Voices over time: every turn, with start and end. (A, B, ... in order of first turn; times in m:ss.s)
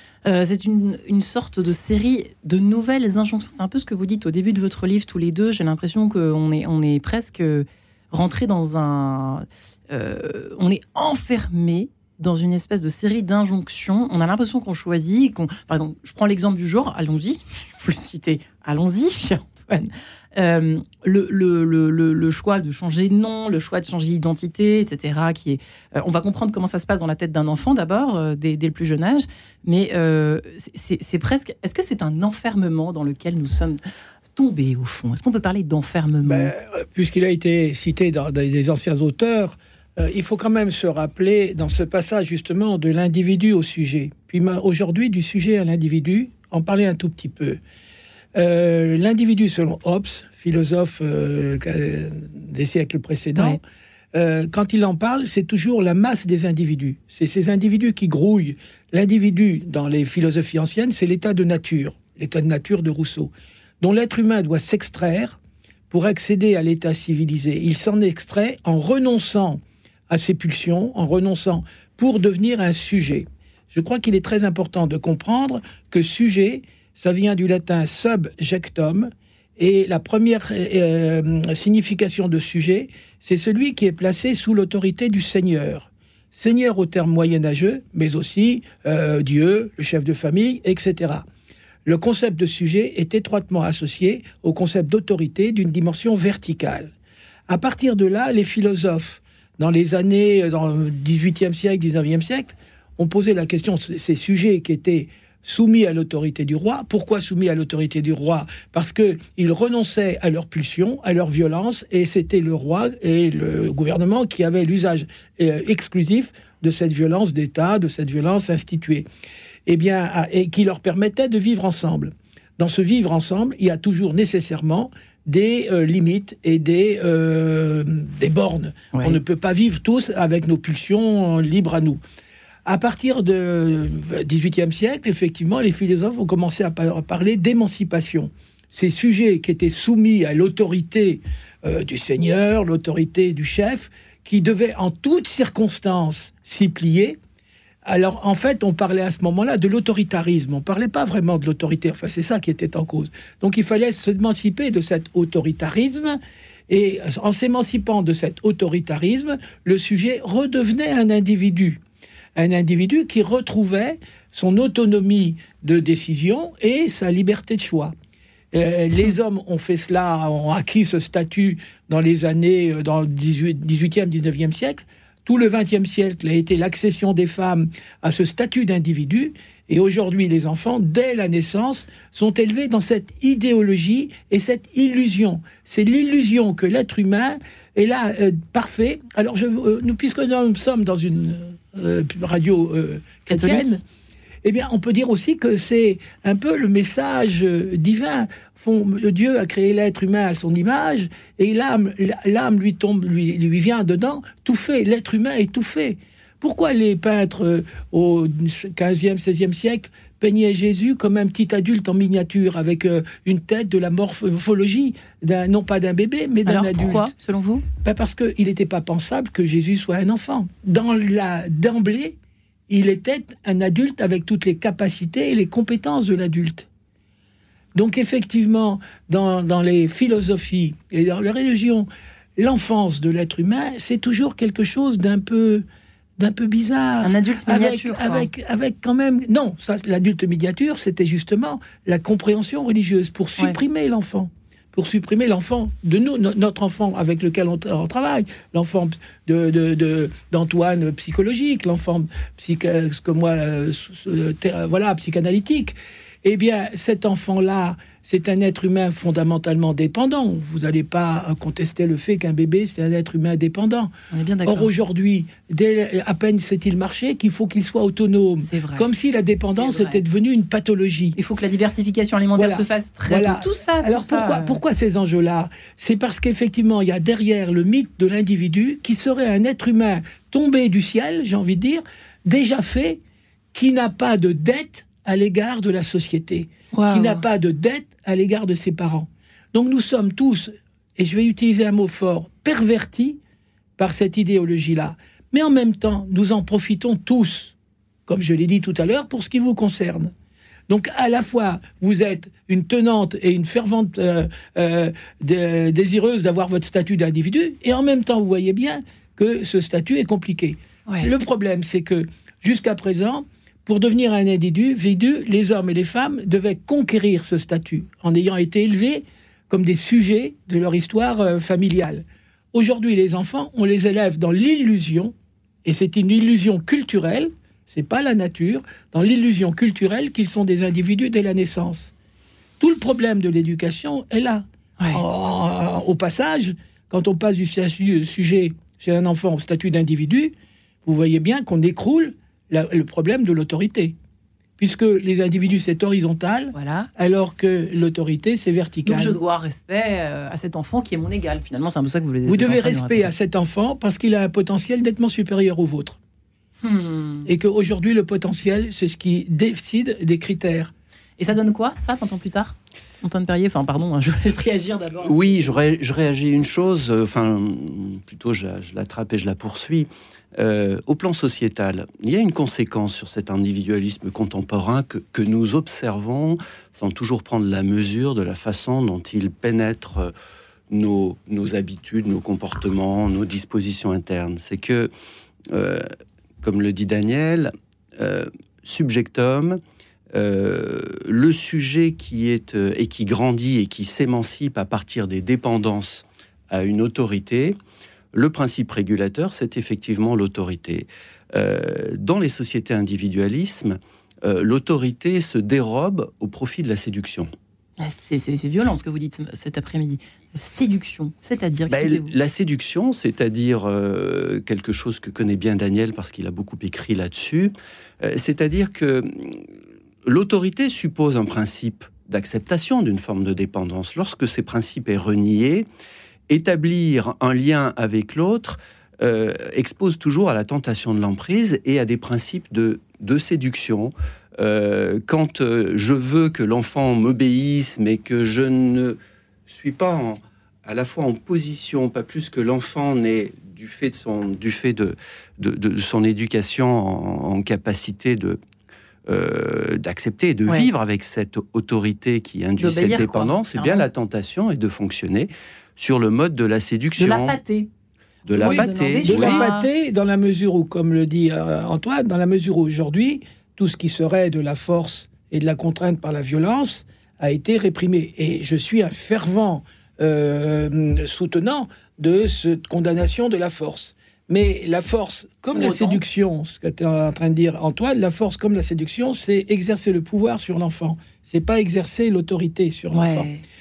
0:00.2-0:33.8 A
0:34.4-0:36.5 A
0:36.2-0:47.6 B
0:48.3-0:53.6 B
0:54.1-1:05.4 B
1:05.9-1:31.2 B
1:31.8-1:36.9 B
1:37.5-1:59.0 B
1:59.6-2:12.0 B
2:12.6-2:27.2 B
2:27.8-2:41.8 B
2:42.4-2:47.9 B
2:48.5-3:13.8 B
3:13.3-3:13.8 A
3:14.4-3:37.1 B
3:36.4-3:37.6 A
3:37.8-3:42.2 B
3:42.7-3:46.7 B
3:47.7-3:55.6 B
3:56.2-4:23.9 B
3:57.0-3:58.3 A
4:24.1-4:24.7 A
4:24.4-4:31.2 B
4:28.4-4:28.9 A
4:29.5-4:30.0 A
4:31.2-4:34.6 A
4:32.3-4:43.0 B
4:43.5-4:53.2 B
4:46.7-4:47.2 A
4:53.8-4:57.5 B
4:58.1-5:00.1 B
5:00.7-5:25.1 B
5:25.6-5:31.9 B
5:32.6-5:44.0 B
5:44.6-5:49.2 B
5:46.5-5:46.9 A
5:48.8-5:53.1 A
5:52.2-5:56.0 B
5:56.6-5:57.3 A
5:57.2-6:00.7 B
6:01.2-6:05.5 A
6:05.0-6:20.1 C
6:20.7-6:24.9 C
6:25.5-6:25.9 C
6:26.4-6:29.6 C
6:30.1-6:37.6 C
6:38.1-6:47.3 C
6:47.8-6:52.1 A
6:51.7-6:59.4 C
7:00.0-7:05.7 C
7:06.3-7:28.4 C
7:29.1-7:37.4 C
7:32.6-7:33.8 A
7:37.0-7:37.7 A
7:38.2-7:39.4 C
7:38.3-7:39.7 A
7:38.4-8:03.3 B
7:55.5-7:56.0 A
8:02.9-8:03.4 A